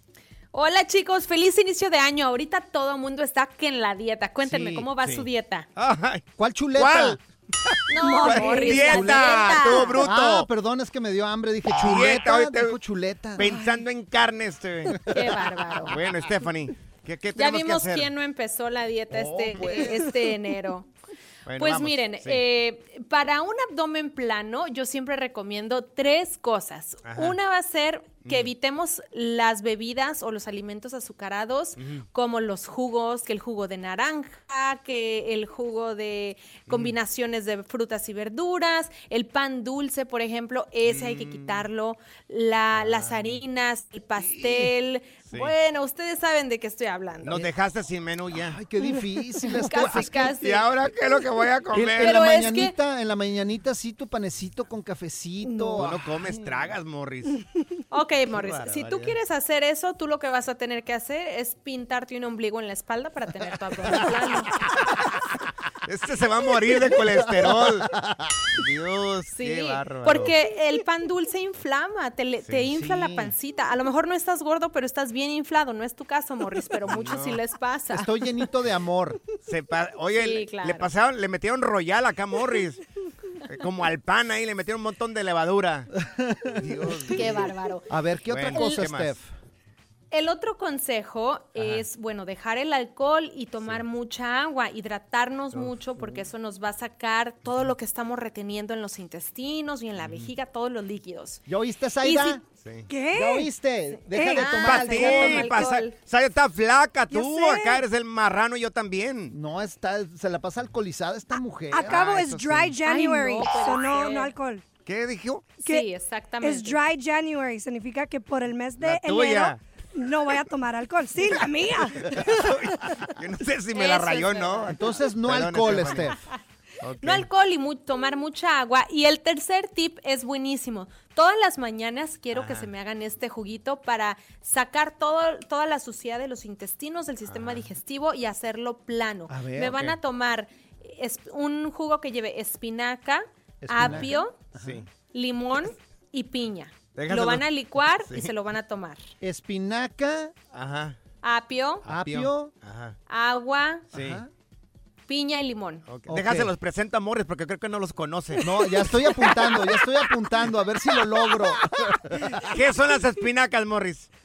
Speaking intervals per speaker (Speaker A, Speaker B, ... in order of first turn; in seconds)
Speaker A: 0.5-5.7, 7.9-9.9, 15.1-15.9, 17.3-20.9, 21.5-47.4, 49.6-50.6, 52.0-52.7, 57.9-64.5, 69.3-78.1, 80.2-80.9, 87.1-87.8, 88.5-88.8, 90.1-101.4, 102.0-102.4, 104.3-105.9, 112.8-114.3, 115.6-116.8, 123.7-124.7, 127.0-144.4, 145.1-149.0, 151.2-151.8, 153.1-153.9, 155.1-155.8
Speaker B: 4.5-6.2, 6.8-7.2, 8.0-10.5, 11.7-12.8, 13.4-15.1, 15.9-18.1, 19.5-19.9, 21.4-22.4, 27.0-27.4, 28.2-28.5, 31.8-32.0, 36.7-37.0, 40.8-41.7, 42.7-43.4, 47.2-48.6, 49.8-52.2, 55.8-57.3, 58.3-59.2, 65.8-67.9, 68.6-70.3, 72.4-72.7, 76.8-77.4, 79.5-82.8, 83.5-85.9, 86.6-87.5, 88.3-89.2, 91.5-91.9, 95.5-96.2, 100.0-100.3, 102.6-102.9, 104.4-109.3, 111.8-112.8, 114.8-115.6, 118.8-119.6, 122.0-126.1, 126.8-127.3, 132.3-132.7, 137.2-137.7, 143.8-144.9, 146.9-147.4, 150.5-151.0, 151.8-152.9, 153.9-154.2, 155.8-159.8, 162.3-164.1
Speaker C: 6.4-7.2, 8.1-13.4, 19.1-20.0, 48.4-50.3, 51.7-56.6, 67.1-68.3, 72.7-73.3, 77.9-79.2, 86.1-86.6, 87.9-89.2, 101.5-102.4, 103.1-105.7, 109.3-112.0, 124.7-126.2, 139.3-139.8, 143.6-144.8, 149.2-150.3, 151.8-152.5, 153.9-154.3, 156.1-156.5, 158.4-162.5
Speaker D: 13.4-13.8, 48.9-49.5, 55.4-55.8, 102.9-103.5, 104.1-104.6, 107.1-107.8, 111.7-114.6, 115.6-115.9, 116.4-122.0